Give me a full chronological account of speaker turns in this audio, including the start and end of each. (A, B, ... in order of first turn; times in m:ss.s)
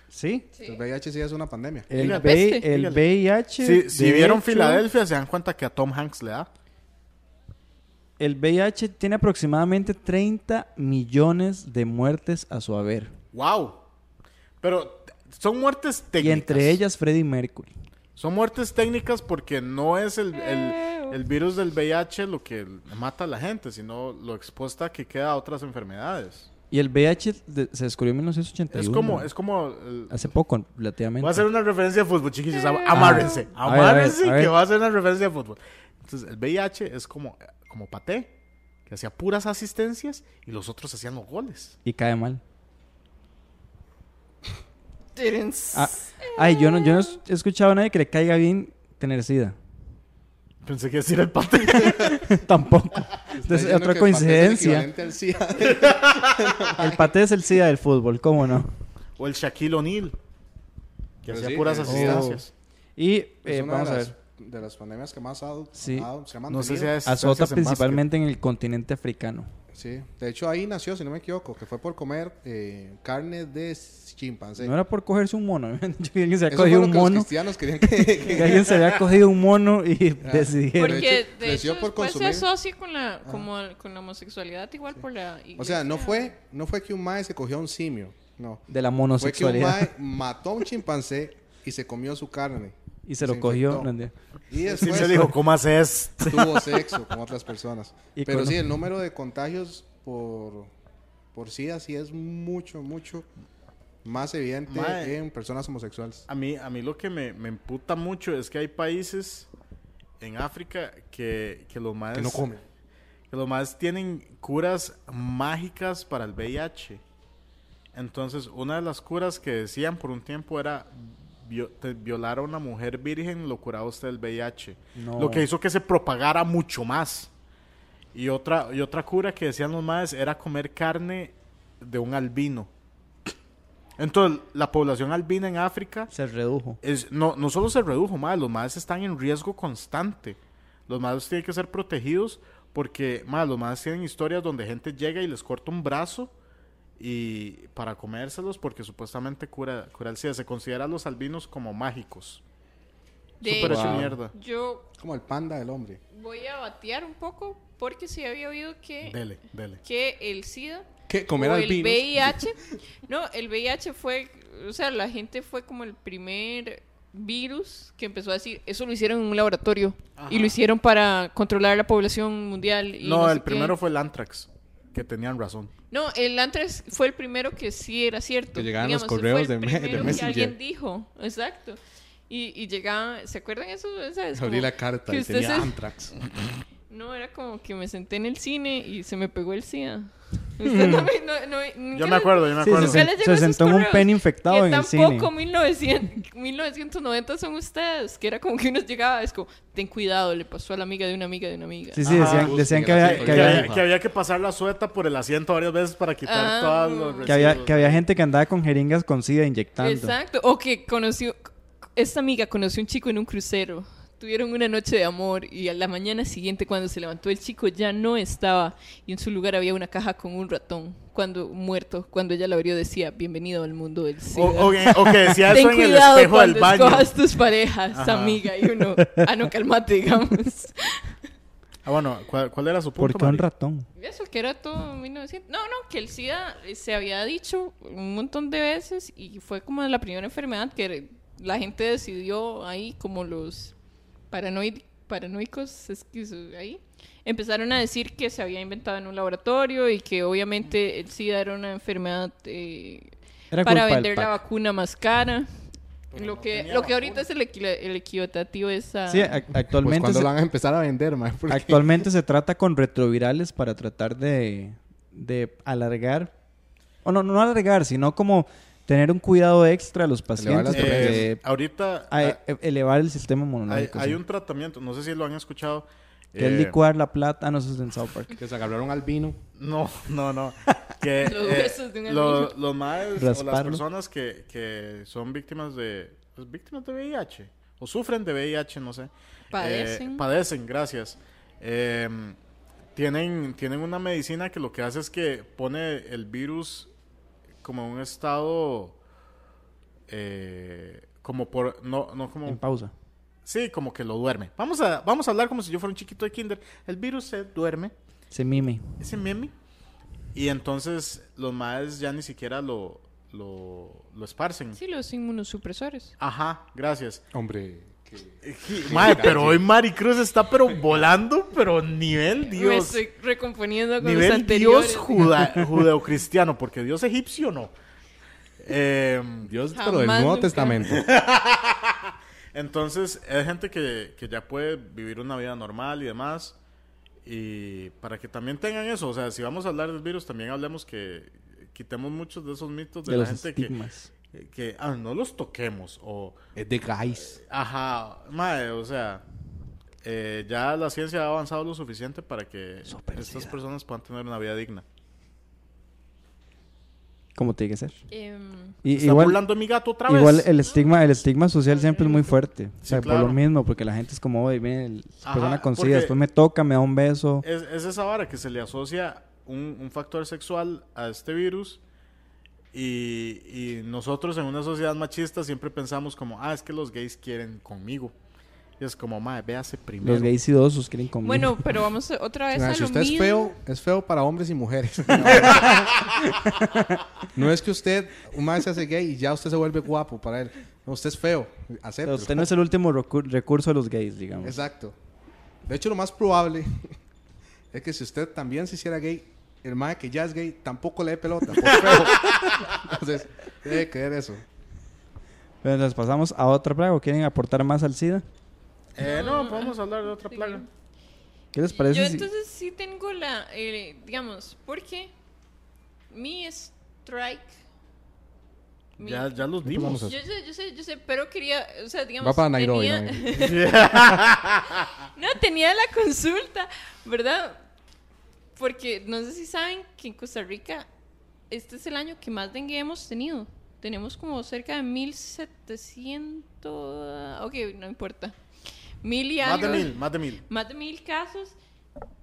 0:00.1-0:00.5 A
0:00.5-0:00.8 B
0:00.6-0:01.9 C
0:01.9-0:04.8 A
0:02.0-0:03.0 D
0:02.0-0:02.7 B
0:03.6-0:06.5 D
0:08.2-0:13.1 A
0:13.3-0:13.8 D
0:14.6-0:16.8 D
0:16.2-0:17.7 A
0:18.2-0:26.5 D
0:20.3-0:21.2 B
0:26.7-0:29.3 A
0:28.7-0:30.3 D
0:30.1-0:31.4 A
0:31.2-0:38.3 D
0:32.5-0:33.5 B
0:32.9-0:34.6 A
0:38.9-0:41.8 D
0:41.8-0:42.4 A
0:45.2-0:47.2 B
0:45.7-0:49.6 A
0:50.6-0:52.4 D
0:51.7-0:54.9 A
0:53.3-0:57.1 C
0:55.9-0:56.4 D
0:56.8-0:58.7 A
0:59.2-1:00.2 D
1:01.2-1:02.5 D
1:01.3-1:02.4 C
1:01.8-1:04.1 A
1:03.5-1:07.0 C
1:05.8-1:06.1 A
1:06.5-1:08.0 D
1:07.0-1:09.5 A
1:09.7-1:14.7 C
1:14.6-1:21.2 A
1:16.5-1:18.9 C
1:20.2-1:22.5 C
1:20.8-1:26.3 B
1:25.6-1:28.6 C
1:28.7-1:29.9 A
1:29.2-1:33.9 C
1:33.1-1:34.1 A
1:34.5-1:35.3 C
1:34.6-1:36.4 D
1:34.8-1:35.4 A
1:36.2-1:36.9 A
1:36.3-1:40.7 C
1:38.2-1:38.7 A
1:41.3-1:43.3 C
1:44.0-1:46.3 C
1:44.7-1:45.2 D
1:46.3-1:49.5 D
1:50.2-1:52.5 D
1:52.1-1:52.6 C
1:53.3-1:57.0 D
1:57.9-2:07.3 D
2:05.0-2:05.5 A
2:08.1-2:12.7 D
2:14.0-2:16.1 D
2:16.1-2:16.8 A
2:16.8-2:26.3 D
2:27.0-2:32.4 D
2:33.4-2:34.9 B
2:33.4-2:34.3 D
2:33.5-2:34.1 C
2:33.6-2:34.1 A
2:35.0-2:36.0 C
2:36.1-2:39.2 B
2:39.0-2:39.8 D
2:39.8-2:40.9 B
2:41.1-2:42.4 C
2:41.4-2:53.8 B
2:50.2-2:50.6 D
2:53.0-2:55.7 D
2:55.9-3:05.8 B
2:58.6-3:00.6 C
3:04.4-3:06.2 C
3:06.9-3:22.0 B
3:10.6-3:11.1 A
3:11.9-3:13.1 D
3:12.6-3:15.3 A
3:21.9-3:23.7 A
3:22.0-3:23.9 C
3:22.0-3:28.0 D
3:26.2-3:27.5 B
3:27.3-3:30.2 A
3:29.8-3:51.2 B
3:44.3-3:47.1 D
3:47.9-3:48.4 D
3:51.8-3:53.4 D
3:53.0-3:53.9 A
3:54.0-4:03.7 B
4:04.3-4:19.4 B
4:13.5-4:14.4 A
4:16.1-4:17.2 D
4:19.1-4:20.3 A
4:19.8-4:21.9 C
4:21.5-4:26.3 A
4:27.0-4:31.4 A
4:30.4-4:31.3 C
4:30.7-4:32.4 D
4:32.1-4:34.2 A
4:33.7-4:36.8 D
4:36.4-4:38.4 A
4:38.4-4:39.4 C
4:39.6-4:52.4 D
4:41.2-4:42.6 B
4:43.2-4:43.8 A
4:49.5-4:50.3 B
4:53.0-4:56.9 D
4:57.6-4:59.0 D
5:00.1-5:02.6 D
5:02.5-5:02.9 A
5:03.4-5:07.9 D
5:08.3-5:09.0 A
5:09.0-5:09.5 D
5:10.3-5:14.8 D
5:14.8-5:16.1 B
5:16.2-5:17.2 D
5:17.3-5:19.7 C
5:18.4-5:23.0 D
5:22.5-5:25.4 B
5:24.0-5:27.7 D
5:28.6-5:29.5 D
5:29.4-5:31.1 C
5:29.7-5:30.8 B
5:30.9-5:36.6 D
5:37.2-5:43.7 D
5:43.1-5:44.1 A
5:44.3-5:46.4 D
5:46.6-5:47.4 C
5:47.4-5:49.2 D
5:50.0-5:54.8 D
5:52.9-5:53.6 A
5:57.4-5:58.0 A
5:58.1-5:58.8 B
5:58.8-5:59.4 A
5:58.9-6:00.5 D
6:00.1-6:07.4 A
6:00.6-6:00.9 B
6:01.7-6:02.3 B
6:02.8-6:03.4 D
6:05.2-6:06.2 D
6:07.4-6:11.8 D
6:12.7-6:18.1 D
6:18.8-6:20.3 D
6:20.0-6:21.7 A
6:21.2-6:23.6 B
6:22.5-6:26.3 C
6:25.2-6:27.0 A
6:25.4-6:25.8 D
6:27.3-6:32.5 C
6:32.0-6:34.6 A
6:34.4-6:35.0 C
6:35.7-6:36.9 C
6:37.7-6:44.4 C
6:41.6-6:42.6 D
6:45.6-6:48.3 A
6:49.0-6:50.6 D
6:49.0-6:49.8 B
6:50.3-6:50.7 B
6:51.5-6:52.3 A
6:51.7-6:55.1 B
6:56.1-6:57.6 B
6:59.0-6:59.4 B
6:59.0-7:00.1 D
6:59.6-7:00.2 C
7:00.0-7:03.8 B
7:02.2-7:03.6 C
7:03.4-7:04.9 D
7:05.1-7:07.6 B
7:08.6-7:10.9 B
7:11.5-7:18.4 B
7:19.0-7:20.0 B
7:19.4-7:20.4 D
7:20.5-7:21.6 B